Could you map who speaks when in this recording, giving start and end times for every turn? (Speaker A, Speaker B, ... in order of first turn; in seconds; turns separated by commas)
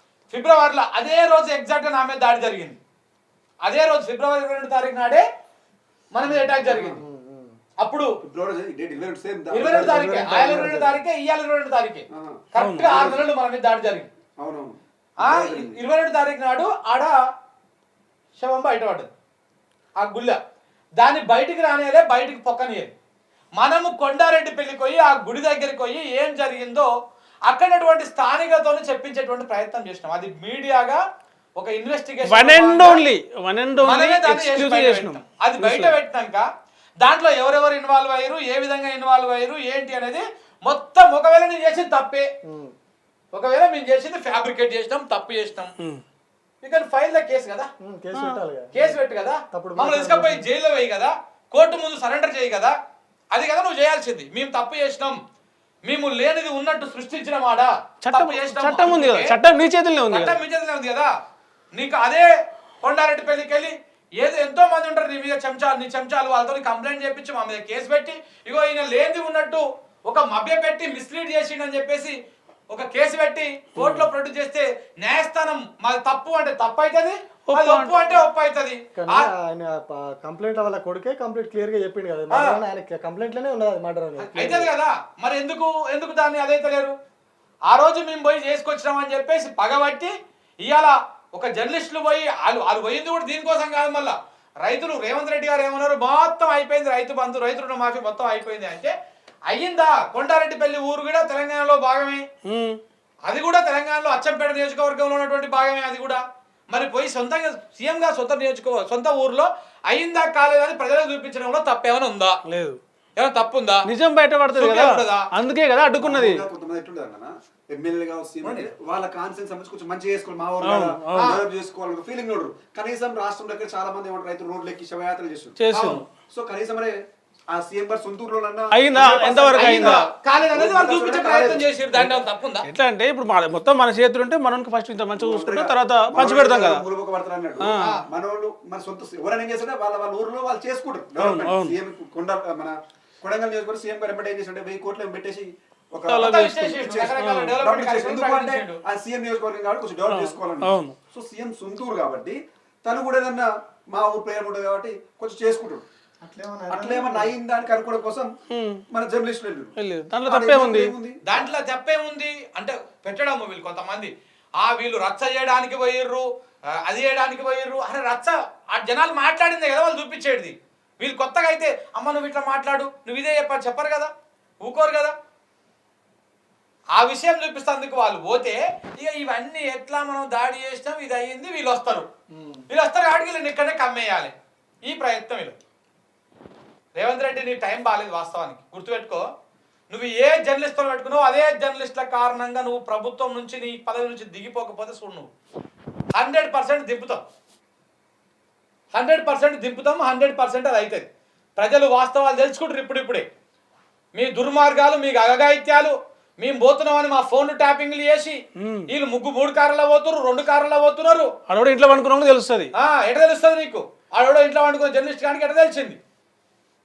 Speaker A: 0.3-2.8, Speaker A: 3.6-5.2, Speaker A: 6.1-7.0, Speaker B: 6.6-7.0, Speaker C: 6.7-7.6, Speaker A: 7.8-8.1, Speaker B: 8.2-10.9, Speaker A: 9.5-14.1, Speaker C: 9.7-10.9, Speaker B: 12.1-13.3, Speaker D: 12.6-13.0, Speaker B: 14.4-15.8, Speaker A: 15.2-17.1, Speaker A: 18.4-19.1, Speaker A: 20.0-20.4, Speaker A: 21.0-22.9, Speaker A: 23.6-26.9, Speaker A: 27.5-31.0, Speaker A: 31.6-33.0, Speaker D: 32.2-36.0, Speaker A: 33.8-36.5, Speaker A: 37.0-42.3, Speaker C: 42.5-42.7, Speaker A: 43.3-45.7, Speaker A: 46.6-47.7, Speaker C: 47.8-49.0, Speaker D: 48.1-48.4, Speaker A: 48.7-52.7, Speaker C: 49.5-50.5, Speaker A: 53.3-55.2, Speaker A: 55.9-59.4, Speaker D: 58.0-60.4, Speaker A: 60.1-61.1, Speaker A: 61.7-62.3, Speaker A: 62.8-72.1, Speaker A: 72.7-79.3, Speaker D: 73.8-74.1, Speaker D: 77.5-77.9, Speaker C: 79.0-84.7, Speaker A: 82.3-82.6, Speaker A: 84.2-86.9, Speaker A: 87.7-90.1, Speaker A: 90.6-98.9, Speaker A: 99.5-102.2, Speaker D: 102.5-102.8, Speaker A: 103.3-112.4, Speaker D: 112.5-112.8, Speaker A: 113.2-113.8, Speaker D: 113.9-116.4, Speaker A: 114.5-115.3, Speaker B: 116.0-125.5, Speaker A: 118.4-118.7, Speaker D: 120.6-121.4, Speaker A: 121.2-121.4, Speaker D: 125.6-126.1, Speaker A: 125.7-126.0, Speaker B: 126.3-127.0, Speaker B: 127.5-132.1, Speaker D: 128.7-130.0, Speaker A: 129.6-132.7, Speaker D: 132.6-136.8, Speaker B: 135.2-155.8, Speaker D: 137.6-137.8, Speaker D: 141.2-141.8, Speaker D: 146.1-147.6, Speaker A: 146.2-148.8, Speaker D: 150.1-150.9, Speaker C: 156.2-157.3, Speaker B: 156.7-158.3, Speaker D: 158.5-158.8, Speaker B: 158.9-159.7, Speaker D: 159.8-160.9, Speaker B: 160.2-161.5, Speaker A: 161.3-166.2, Speaker A: 166.8-174.1, Speaker A: 174.6-175.1, Speaker A: 176.9-182.1, Speaker C: 182.3-182.6, Speaker A: 182.7-184.3, Speaker A: 184.8-185.6, Speaker A: 187.0-189.2, Speaker A: 189.9-195.3, Speaker A: 196.1-197.2, Speaker A: 198.9-201.1, Speaker A: 201.6-203.3, Speaker A: 204.1-211.3, Speaker D: 208.6-208.9, Speaker D: 211.5-212.7, Speaker A: 212.8-216.0